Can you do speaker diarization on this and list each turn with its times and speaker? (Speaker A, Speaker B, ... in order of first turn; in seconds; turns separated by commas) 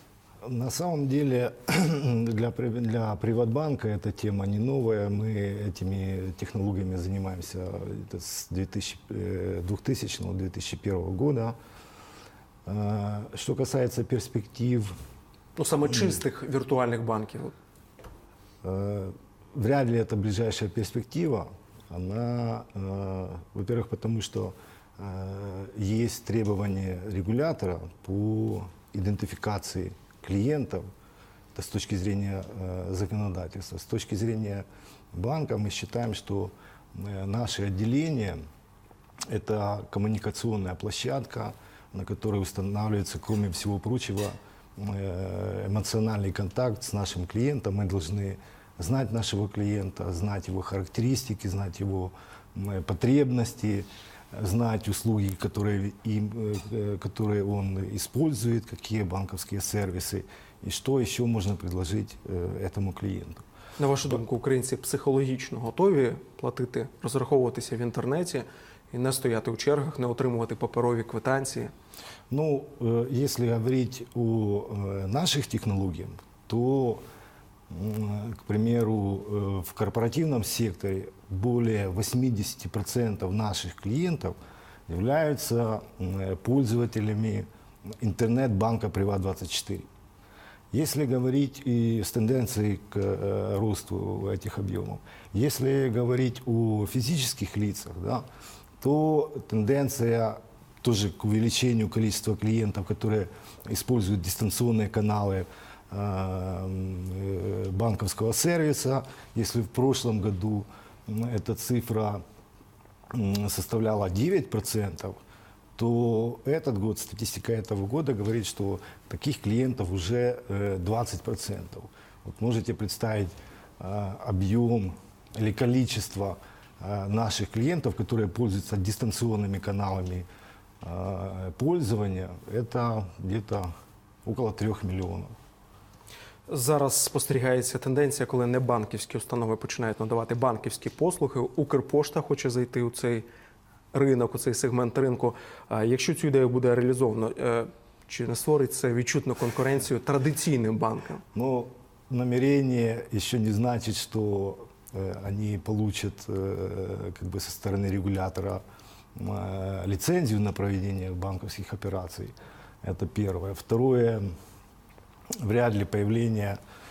Speaker A: 0.4-11.6, Speaker A: 12.7-14.9, Speaker B: 15.6-17.6, Speaker A: 18.6-30.9, Speaker A: 31.6-38.4, Speaker A: 39.3-63.4, Speaker B: 63.8-71.7, Speaker A: 72.3-77.0, Speaker A: 77.7-84.4, Speaker A: 84.9-87.5, Speaker A: 88.0-89.9, Speaker A: 90.7-98.2, Speaker A: 98.8-112.2, Speaker A: 113.1-115.2, Speaker A: 115.8-130.3, Speaker A: 130.8-133.7, Speaker A: 134.2-135.3, Speaker B: 136.5-143.3, Speaker B: 143.9-151.2, Speaker A: 151.3-158.6, Speaker A: 159.2-164.3, Speaker A: 165.4-166.6